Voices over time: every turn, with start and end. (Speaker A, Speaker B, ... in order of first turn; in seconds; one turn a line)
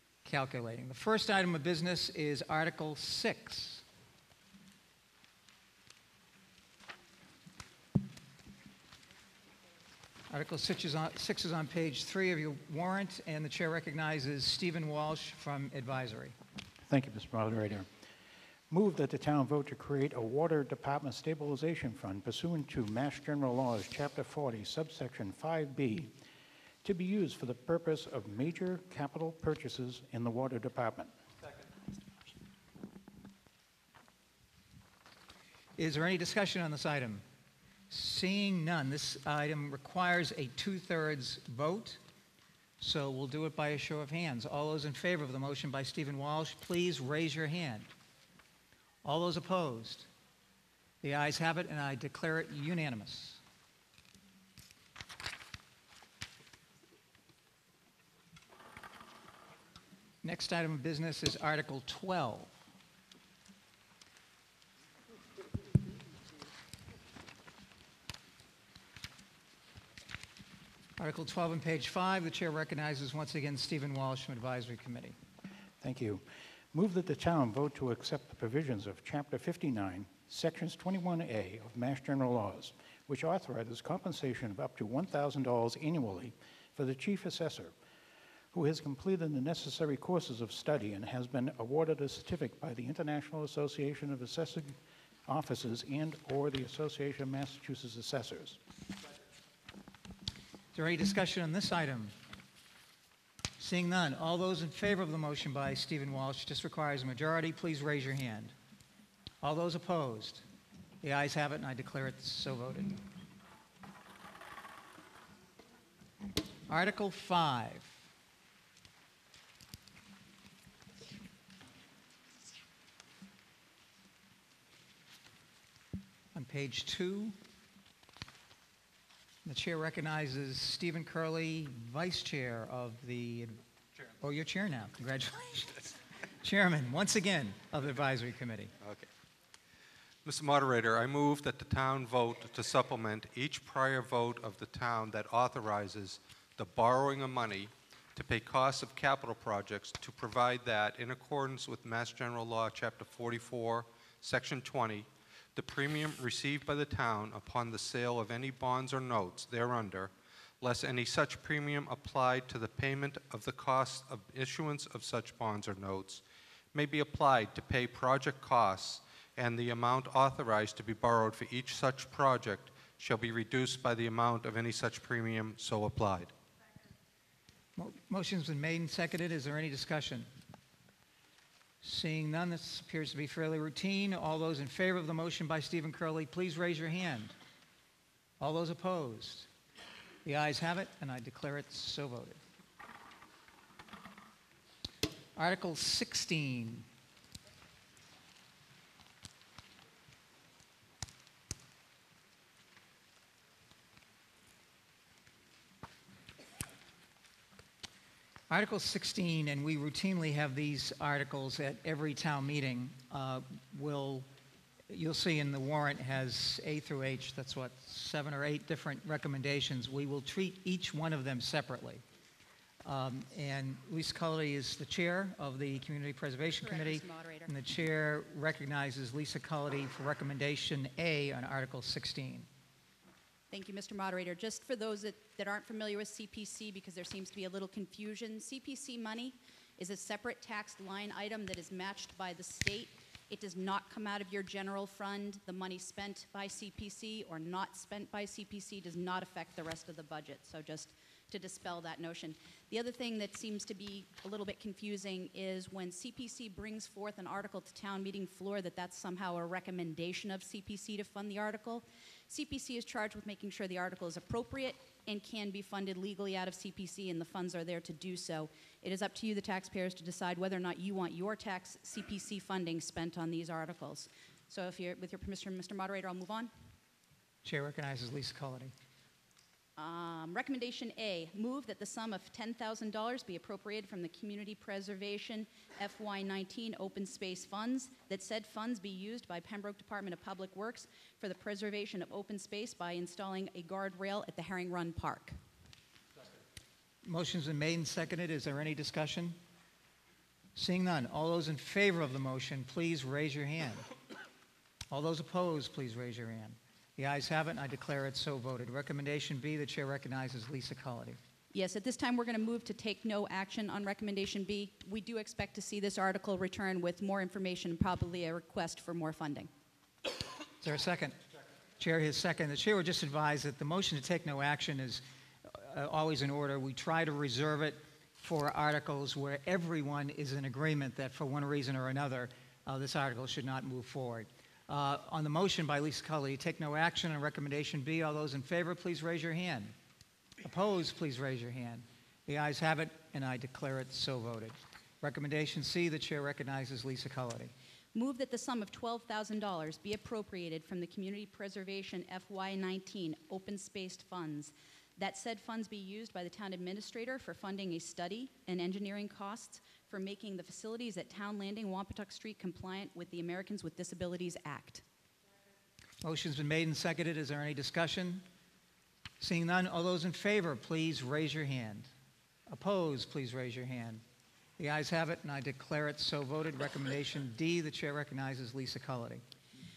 Speaker A: 0.2-3.8
Speaker A: 10.3-16.3
Speaker B: 16.9-17.9
Speaker B: 18.7-26.2
Speaker B: 26.8-31.1
Speaker A: 35.8-37.2
Speaker A: 37.9-42.0
Speaker A: 42.8-47.9
Speaker A: 49.0-50.1
Speaker A: 51.0-53.4
Speaker A: 60.2-62.5
Speaker A: 71.0-75.2
Speaker B: 75.8-87.7
Speaker B: 88.5-98.6
Speaker A: 100.7-102.1
Speaker A: 103.6-108.5
Speaker A: 109.4-110.4
Speaker A: 111.0-113.0
Speaker A: 116.7-118.0
Speaker A: 126.3-127.3
Speaker A: 129.4-133.6
Speaker A: 134.2-135.9
Speaker A: 136.4-138.7
Speaker C: 138.8-139.1
Speaker C: 140.2-166.2
Speaker C: 166.7-176.3
Speaker A: 177.8-180.3
Speaker A: 181.8-187.3
Speaker A: 188.4-189.5
Speaker A: 190.2-192.4
Speaker A: 195.3-196.8
Speaker A: 208.5-214.3
Speaker A: 214.9-222.0
Speaker A: 222.8-232.5
Speaker D: 226.6-227.5
Speaker D: 233.5-276.5
Speaker A: 277.4-278.7
Speaker D: 279.8-295.4
Speaker A: 297.0-299.4
Speaker A: 300.6-303.9
Speaker A: 304.9-311.2
Speaker D: 311.5-319.5
Speaker A: 320.6-321.2
Speaker A: 321.8-339.7
Speaker A: 340.4-347.5
Speaker D: 347.9-364.8
Speaker A: 366.0-368.2
Speaker A: 369.2-371.9
Speaker A: 372.5-374.0
Speaker A: 374.6-379.2